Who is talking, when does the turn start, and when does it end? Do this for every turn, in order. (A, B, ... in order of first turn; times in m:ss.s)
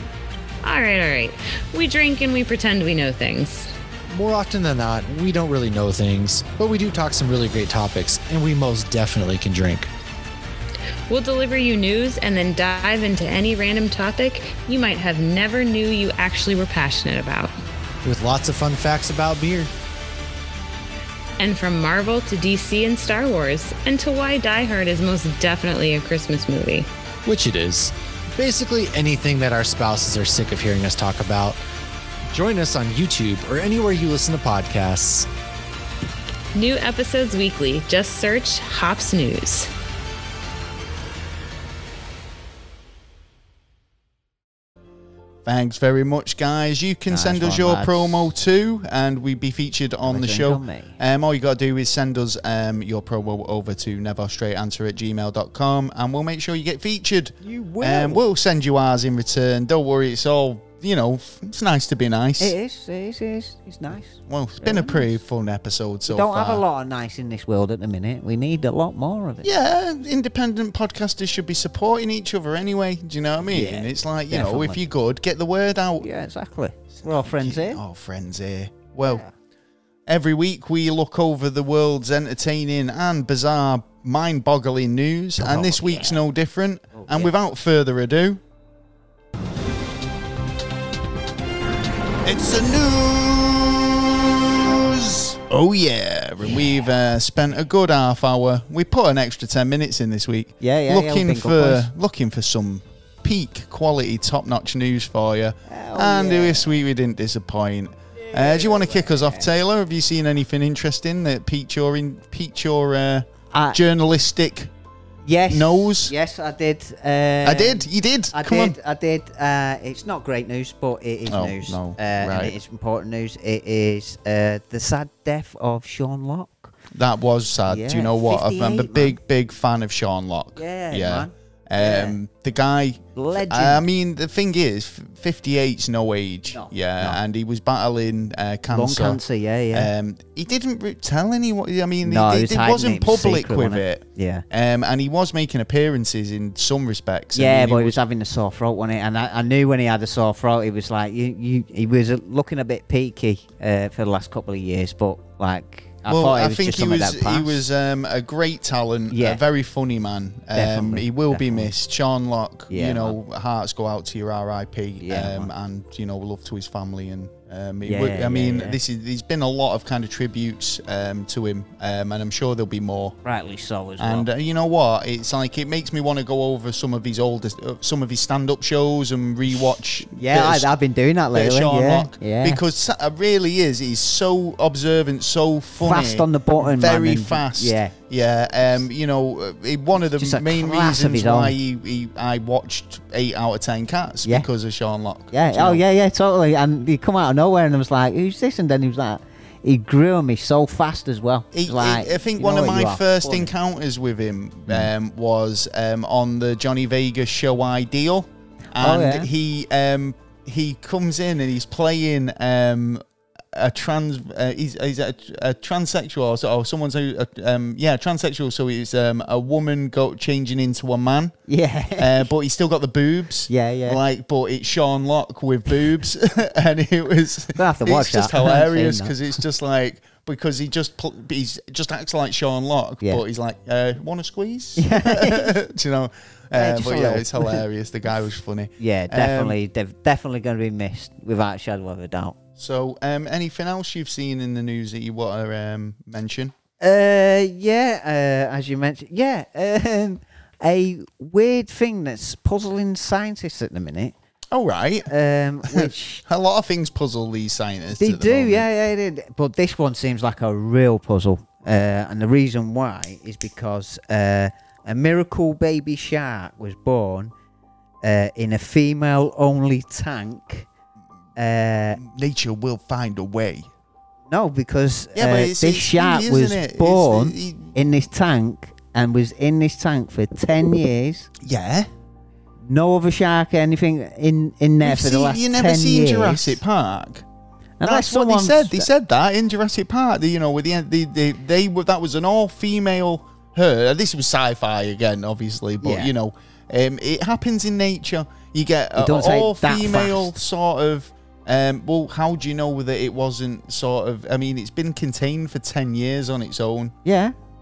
0:00.6-0:03.7 A
0:04.1-0:09.9 B
0:11.1-0:17.5 A
0:18.0-0:19.7 B
0:21.4-0:26.9 A
0:27.2-0:31.6 B
0:32.3-0:35.3 B
0:36.6-0:39.7 A
0:45.4-1:02.6 C
0:47.1-0:48.3 D
0:50.0-0:51.0 D
0:57.4-0:58.2 D
1:02.4-1:05.1 D
1:04.3-1:06.6 C
1:06.1-1:09.5 D
1:09.4-1:16.1 C
1:13.4-1:14.8 D
1:16.0-1:17.8 D
1:16.9-1:19.2 C
1:19.0-1:19.3 D
1:20.1-1:28.4 C
1:25.4-1:26.2 D
1:26.9-1:27.3 D
1:32.2-1:54.7 C
1:40.6-1:41.9 D
1:45.7-1:46.7 D
1:48.2-1:49.5 D
1:53.5-1:53.8 D
1:55.2-2:06.7 D
1:55.5-1:56.1 C
1:57.4-1:58.8 C
2:01.3-2:02.6 C
2:06.9-2:19.2 C
2:07.7-2:09.2 D
2:10.6-2:12.2 D
2:13.1-2:13.8 D
2:16.5-2:17.2 D
2:18.7-2:19.9 D
2:19.7-2:28.0 C
2:22.0-2:24.4 D
2:27.3-2:37.6 D
2:36.1-2:53.2 C
2:39.1-2:39.4 D
2:40.5-2:41.7 D
2:42.7-2:43.2 D
2:45.0-2:45.5 D
2:47.8-2:48.8 D
2:53.2-2:54.3 D
2:54.0-3:00.7 C
3:00.0-3:02.6 D
3:01.3-3:15.8 C
3:05.8-3:07.9 D
3:10.2-3:11.6 D
3:15.3-3:23.5 D
3:21.5-3:33.0 C
3:28.8-3:29.3 D
3:33.5-3:41.4 C
3:41.5-3:42.3 D
3:42.0-3:59.6 C
3:43.5-3:44.0 D
3:47.6-3:49.1 D
3:54.8-3:55.6 D
3:56.6-3:57.6 D
3:58.8-4:02.4 D
4:02.6-4:06.5 C
4:06.8-4:14.1 D
4:14.5-4:15.1 C
4:15.1-4:16.2 D
4:15.6-4:18.7 C
4:18.0-4:27.3 D
4:28.0-4:30.7 D
4:31.4-4:32.0 D
4:32.0-4:33.7 C
4:34.3-4:41.3 D
4:35.2-4:37.7 C
4:41.4-4:41.9 C
4:42.6-4:46.6 D
4:44.8-4:47.2 C
4:47.8-4:48.9 D
4:47.8-5:07.0 C
4:55.8-4:56.1 D
4:59.0-5:00.4 D
5:07.0-5:07.4 D